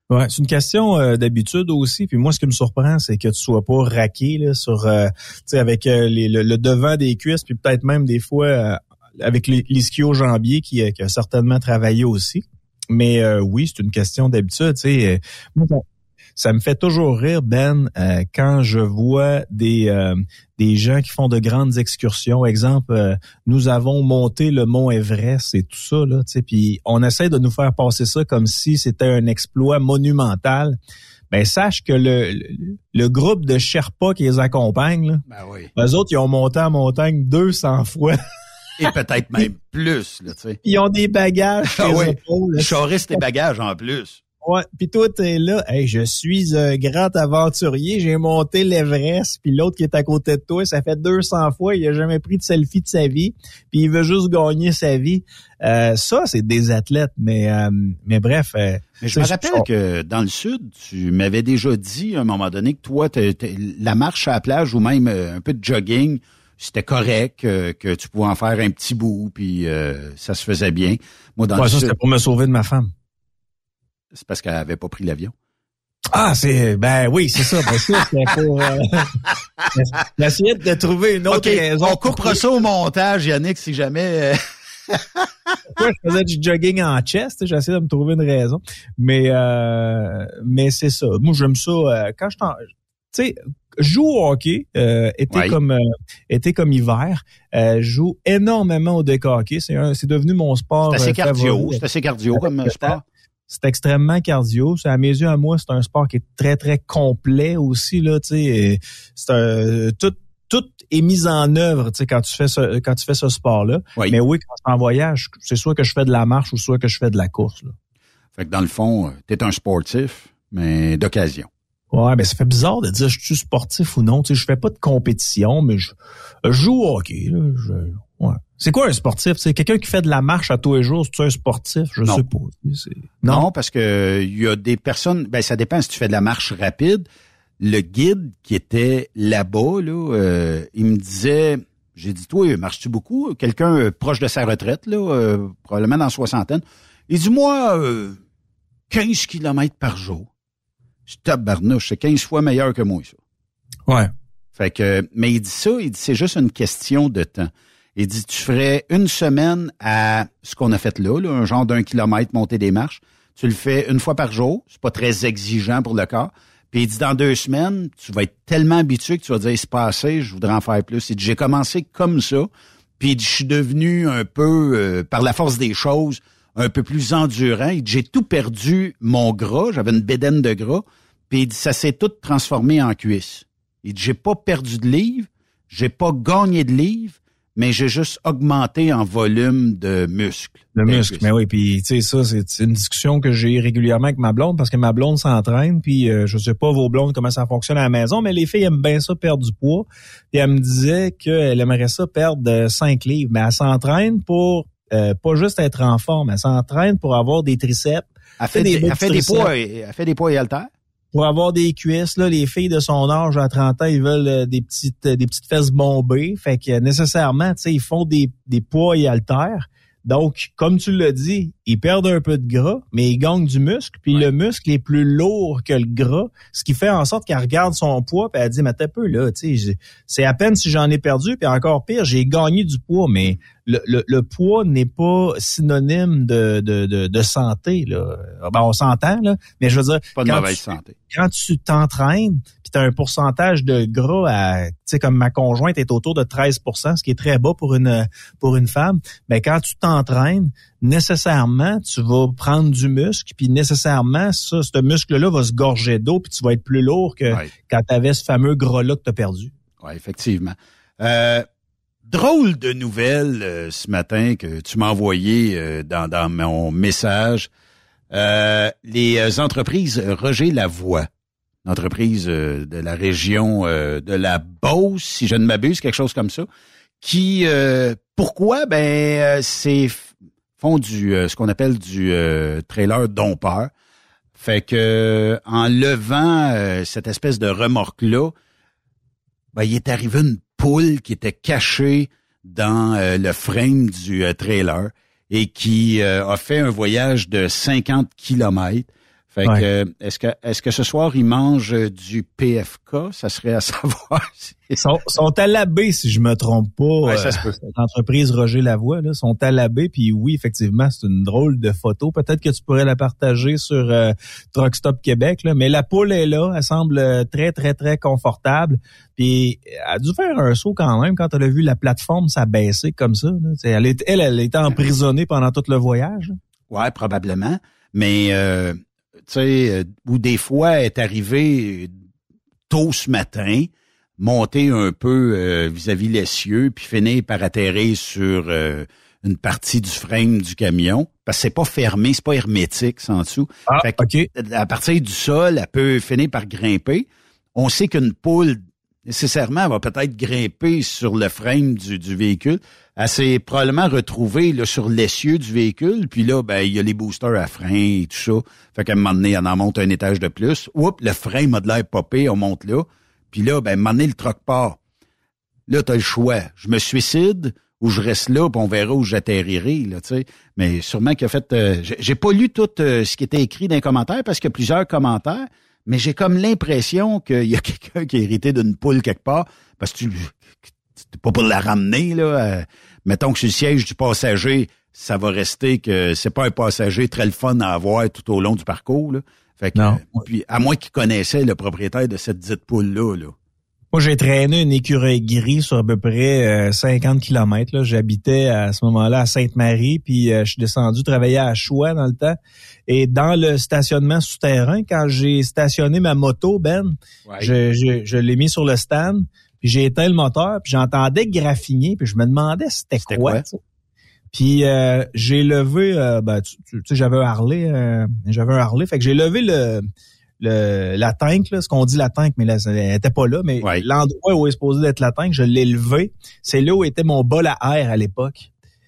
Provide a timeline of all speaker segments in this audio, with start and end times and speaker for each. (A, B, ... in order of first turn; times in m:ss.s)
0:00.1-0:15.8 A
0:16.4-0:30.8 A
0:31.3-0:35.2 A
0:35.3-0:35.7 B
0:35.8-0:38.2 A
0:38.8-0:40.6 B
0:40.6-0:43.2 A
0:41.7-0:44.2 B
0:44.4-0:59.7 A
0:59.0-1:11.9 B
1:11.6-1:12.9 A
1:14.1-1:15.3 B
1:16.1-1:19.2 A
1:19.7-1:22.4 A
1:21.3-1:25.3 B
1:25.8-1:41.8 A
1:35.3-1:35.6 B
1:40.9-1:43.0 B
1:42.6-1:42.9 A
1:43.5-1:57.7 A
1:58.4-2:01.5 B
2:01.9-2:05.9 A
2:06.5-2:13.5 A
2:13.2-2:17.1 B
2:17.6-2:28.2 B
2:28.9-2:30.3 B
2:31.1-2:33.2 B
2:34.6-3:11.3 B
3:10.7-3:29.5 A
3:28.4-3:30.7 B
3:31.1-4:19.5 A
4:00.2-4:01.0 B
4:19.8-4:21.5 B
4:22.1-4:27.5 B
4:28.1-4:31.1 B
4:31.6-4:36.5 B
4:37.0-4:43.7 B
4:44.4-4:48.3 B
4:49.5-5:04.8 B
5:04.8-5:26.4 A
5:07.0-5:07.6 B
5:26.7-5:31.9 B
5:32.7-6:04.8 B
5:43.7-5:44.3 A
6:05.7-6:33.3 B
6:29.8-6:30.0 A
6:33.9-6:53.6 A
6:47.3-6:47.5 B
6:53.0-6:53.4 B
6:54.3-6:59.8 A
7:00.4-7:08.5 A